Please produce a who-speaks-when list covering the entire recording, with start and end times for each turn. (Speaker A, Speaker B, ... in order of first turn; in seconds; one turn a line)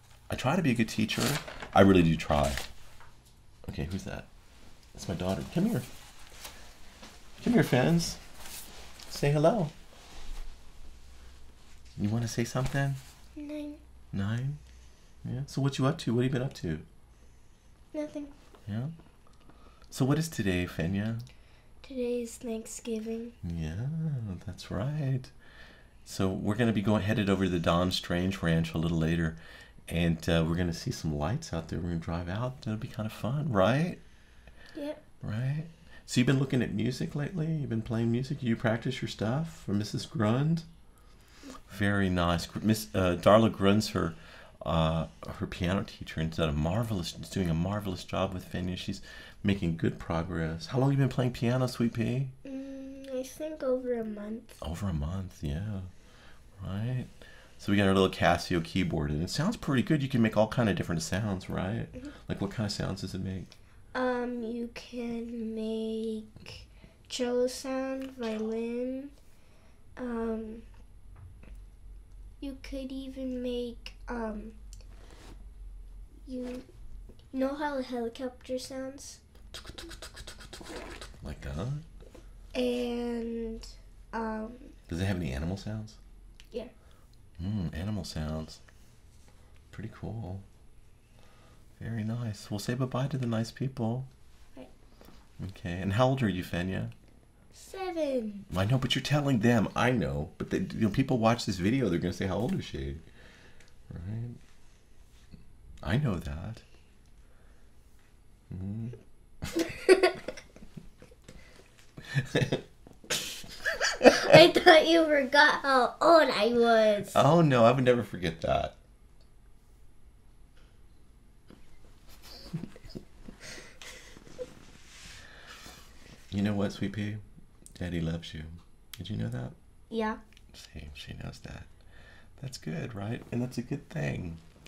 Speaker A: 0.3-2.6
Speaker A: 3.7-4.3
Speaker A: 5.0-5.9
Speaker A: 7.4-8.2
Speaker A: 9.1-9.7
Speaker A: 12.0-13.0
Speaker B: 13.4-13.8
Speaker A: 14.1-14.6
Speaker A: 15.2-16.9
Speaker B: 17.9-18.3
Speaker A: 18.7-18.9
Speaker A: 19.9-21.2
Speaker B: 21.8-23.4
Speaker A: 23.4-25.3
Speaker A: 26.1-34.0
Speaker B: 34.8-35.0
Speaker A: 35.2-40.7
Speaker A: 41.7-52.3
Speaker B: 52.5-54.6
Speaker A: 54.6-55.9
Speaker A: 56.6-63.5
Speaker B: 63.9-69.1
Speaker B: 70.0-70.7
Speaker B: 72.4-74.6
Speaker B: 76.3-76.7
Speaker B: 77.3-79.2
Speaker A: 79.7-80.3
Speaker A: 81.2-81.8
Speaker B: 82.5-84.7
Speaker A: 84.9-86.0
Speaker A: 87.4-88.6
Speaker A: 89.7-90.4
Speaker A: 91.8-94.1
Speaker A: 95.4-96.9
Speaker B: 97.5-98.5
Speaker A: 98.5-103.0
Speaker A: 103.9-104.4
Speaker A: 105.8-106.6
Speaker A: 108.5-109.0
Speaker B: 109.7-110.2
Speaker A: 112.1-112.6
Speaker B: 114.0-117.2
Speaker A: 117.1-118.8
Speaker A: 126.3-127.2
Speaker A: 127.8-129.6
Speaker B: 129.9-130.2
Speaker A: 130.5-131.7
Speaker A: 132.4-134.4